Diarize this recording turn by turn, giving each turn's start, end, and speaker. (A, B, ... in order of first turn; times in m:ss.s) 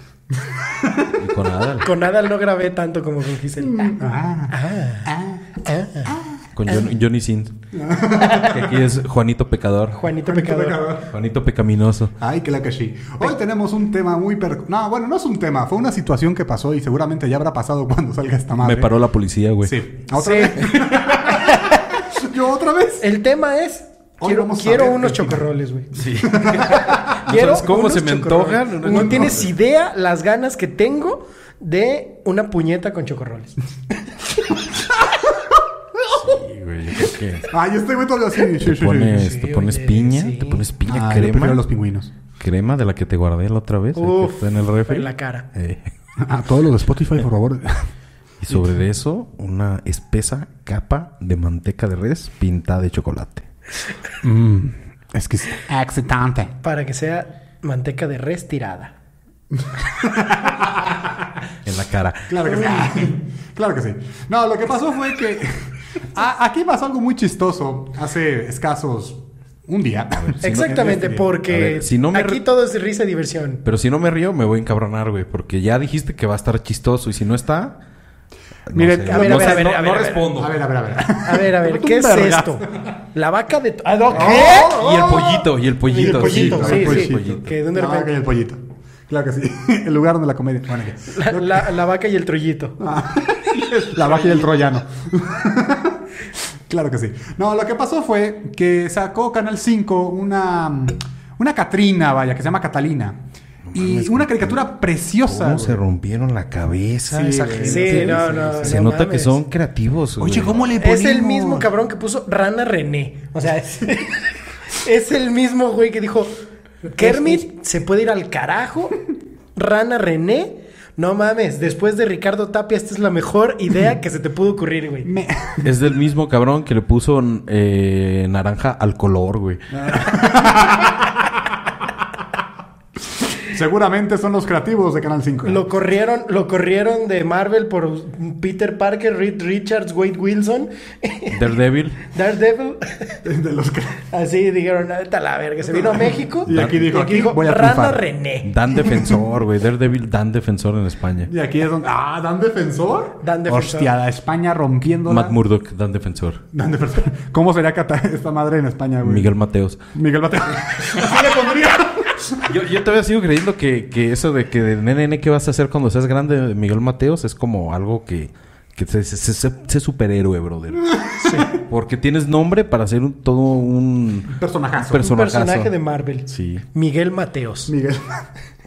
0:00.3-0:01.2 A
0:01.1-0:01.9 B
0:01.8-0:04.0 C
0:03.6-0:06.4 A
0:04.5-0:06.1 C
0:06.6-0:07.6 B
0:07.7-0:08.8 A
0:08.2-0:08.4 C
0:08.2-0:10.0 B
0:09.9-0:10.9 C
0:10.2-0:11.2 A
0:11.1-0:12.1 B
0:12.2-0:18.9 A
0:18.6-0:19.8 B
0:19.6-0:23.1 A
0:20.1-0:21.7 C
0:23.0-0:25.9 C
0:24.2-0:25.5 A
0:25.9-0:29.5 B
0:26.3-0:27.0 A
0:26.5-0:33.6 C
0:28.9-0:29.4 A
0:36.1-0:37.5 B
0:37.5-0:39.3 A
0:38.6-0:41.6 B
0:39.2-0:40.6 C
0:40.8-0:42.1 A
0:42.4-0:45.9 B
0:43.9-0:45.4 C
0:46.2-0:47.9 A
0:48.4-0:53.4 B
0:54.2-0:56.6 A
0:56.6-0:58.9 C
0:59.5-1:00.8 A
1:01.6-1:02.3 B
1:02.3-1:10.4 A
1:02.4-1:02.9 C
1:10.2-1:12.4 B
1:10.4-1:13.6 C
1:13.6-1:17.8 B
1:18.7-1:20.6 B
1:18.7-1:19.8 A
1:19.1-1:20.3 C
1:20.3-1:22.9 A
1:21.0-1:25.2 C
1:24.1-1:31.7 A
1:24.2-1:27.5 B
1:25.9-1:28.1 C
1:31.1-1:32.8 C
1:32.8-1:36.0 A
1:36.7-1:43.2 A
1:43.7-1:44.7 B
1:43.7-1:45.8 A
1:45.2-1:50.6 B
1:47.1-1:48.8 A
1:47.6-1:49.4 C
1:50.2-1:51.7 A
1:50.8-1:56.3 C
1:56.9-1:59.0 C
1:57.0-1:57.4 A
1:59.6-2:05.1 C
2:05.0-2:05.7 A
2:05.6-2:09.6 B
2:09.7-2:11.2 A
2:13.4-2:15.6 A
2:15.4-2:21.4 C
2:21.3-2:22.0 B
2:22.1-2:23.2 C
2:23.2-2:24.0 A
2:24.1-2:28.5 C
2:25.7-2:28.0 A
2:26.5-2:26.8 B
2:28.4-2:31.3 B
2:31.2-2:35.4 A
2:33.2-2:33.9 C
2:35.1-2:36.4 B
2:36.5-2:39.3 A
2:39.0-2:39.8 B
2:39.9-2:42.4 A
2:42.4-2:51.0 B
2:51.2-2:51.5 C
2:51.5-2:55.7 B
2:54.3-2:55.1 A
2:55.0-2:57.7 C
2:56.3-2:56.6 B
2:57.7-2:58.2 A